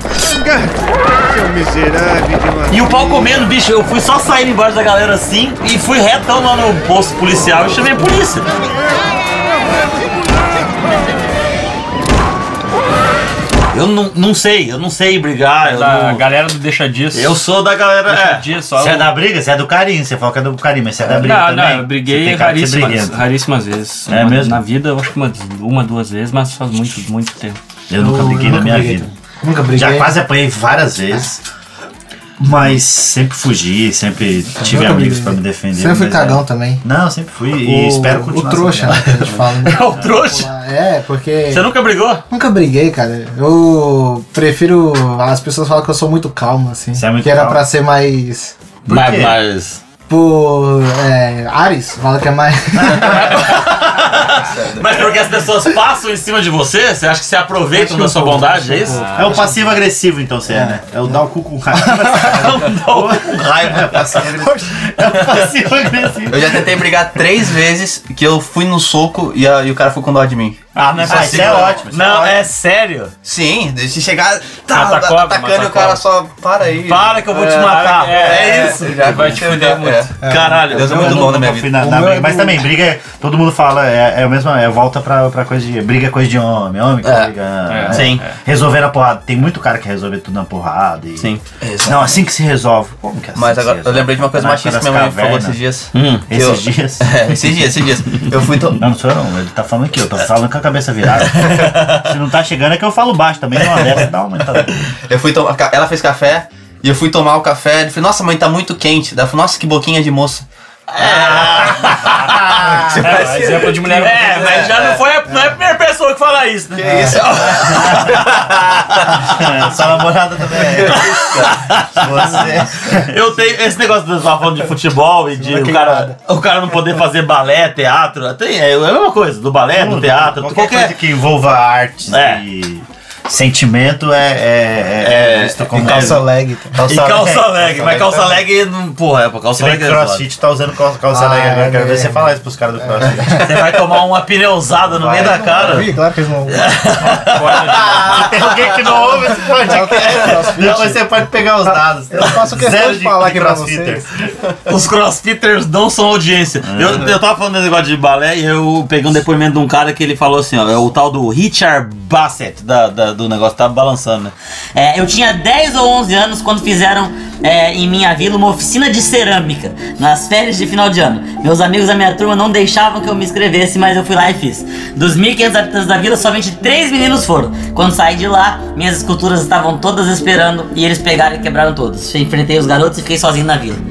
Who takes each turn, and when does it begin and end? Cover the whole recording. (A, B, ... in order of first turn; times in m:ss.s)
0:02.7-0:08.5 A
0:13.7-0:16.2 A
0:15.6-0:17.4 B
0:17.1-0:18.5 A
0:18.1-0:19.1 B
0:18.8-0:23.3 C
0:21.2-0:27.6 B
0:24.1-0:24.6 C
0:27.9-0:29.1 C
0:28.0-0:30.2 D
0:29.7-0:31.4 C
0:32.4-0:39.4 C
0:34.6-0:36.8 D
0:37.5-0:41.7 D
0:39.3-0:40.5 A
0:41.5-0:42.2 A
0:42.3-0:48.6 D
0:47.0-0:47.6 C
0:48.9-0:49.4 C
0:48.9-0:49.8 A
0:50.1-0:53.7 D
0:52.8-0:59.2 A
0:54.3-0:54.9 E
0:57.7-0:59.6 D
0:58.8-0:59.5 B
0:59.1-1:06.7 C
1:00.5-1:01.2 D
1:01.8-1:02.1 D
1:02.1-1:04.4 A
1:06.3-1:11.8 E
1:10.8-1:13.1 A
1:11.0-1:12.4 C
1:13.2-1:21.7 E
1:14.7-1:16.0 B
1:16.9-1:19.3 A
1:17.3-1:20.2 B
1:20.2-1:20.6 D
1:20.2-1:21.4 A
1:20.7-1:35.6 C
1:21.7-1:22.7 D
1:27.7-1:28.4 B
1:27.9-1:28.2 A
1:31.6-1:32.2 E
1:33.4-1:38.8 E
1:35.9-1:36.3 A
1:36.3-1:37.2 C
1:38.7-1:44.8 C
1:41.4-1:42.1 A
1:45.1-1:50.5 E
1:50.9-1:52.8 A
1:51.0-1:55.0 E
1:52.1-1:53.1 C
1:53.0-1:54.8 B
1:53.8-1:59.7 A
1:56.8-1:58.4 E
1:56.8-1:57.4 D
1:57.7-1:58.3 C
1:59.0-2:03.2 C
2:00.9-2:01.6 E
2:00.9-2:11.0 A
2:05.4-2:06.1 D
2:09.7-2:18.2 C
2:12.1-2:12.4 A
2:15.0-2:16.2 A
2:15.7-2:16.8 D
2:16.8-2:20.2 A
2:19.6-2:23.7 C
2:21.1-2:23.5 D
2:23.4-2:28.3 A
2:24.9-2:25.9 C
2:25.1-2:26.7 D
2:27.0-2:28.3 B
2:27.8-2:34.1 C
2:29.4-2:31.0 D
2:30.0-2:30.7 A
2:32.1-2:34.0 D
2:34.7-2:44.3 A
2:36.6-2:37.2 C
2:44.8-3:03.8 F